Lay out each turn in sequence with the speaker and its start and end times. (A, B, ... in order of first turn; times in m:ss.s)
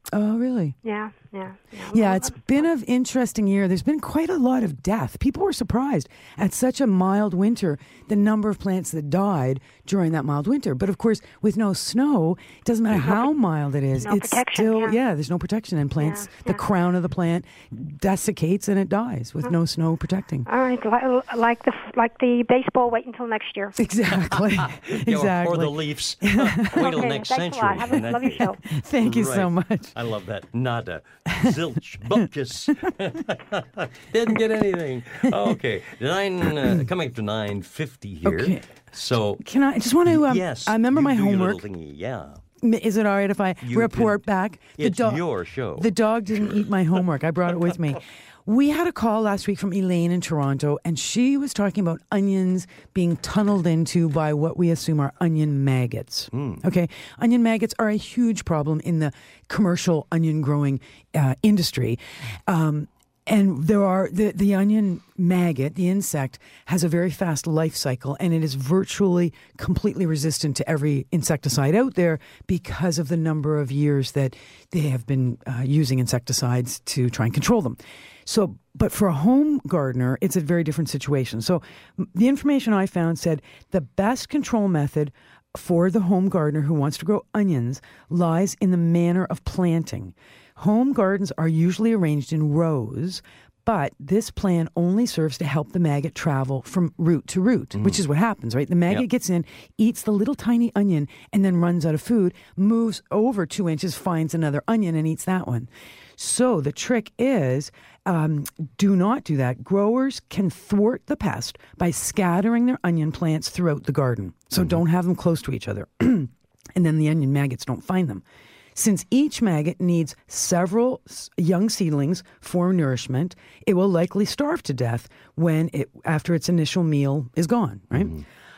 0:00.1-0:00.8 A
0:00.8-0:02.6 B
0:01.9-0:20.5 A
0:12.9-0:13.3 B
0:13.9-0:15.0 B
0:16.0-0:16.6 B
0:20.4-0:23.8 B
0:23.8-0:26.9 A
0:24.2-0:39.4 C
0:26.7-0:28.6 B
0:28.7-0:29.9 A
0:35.3-0:35.6 A
0:36.5-0:36.8 A
0:38.2-0:38.7 A
0:39.4-0:41.6 A
0:40.0-0:42.4 C
0:42.6-0:45.2 A
0:43.6-0:44.2 C
0:44.8-0:45.9 C
0:45.8-1:58.2 A
0:56.3-0:56.6 C
1:37.7-1:38.0 C
1:58.7-2:08.2 A
2:08.0-2:08.2 C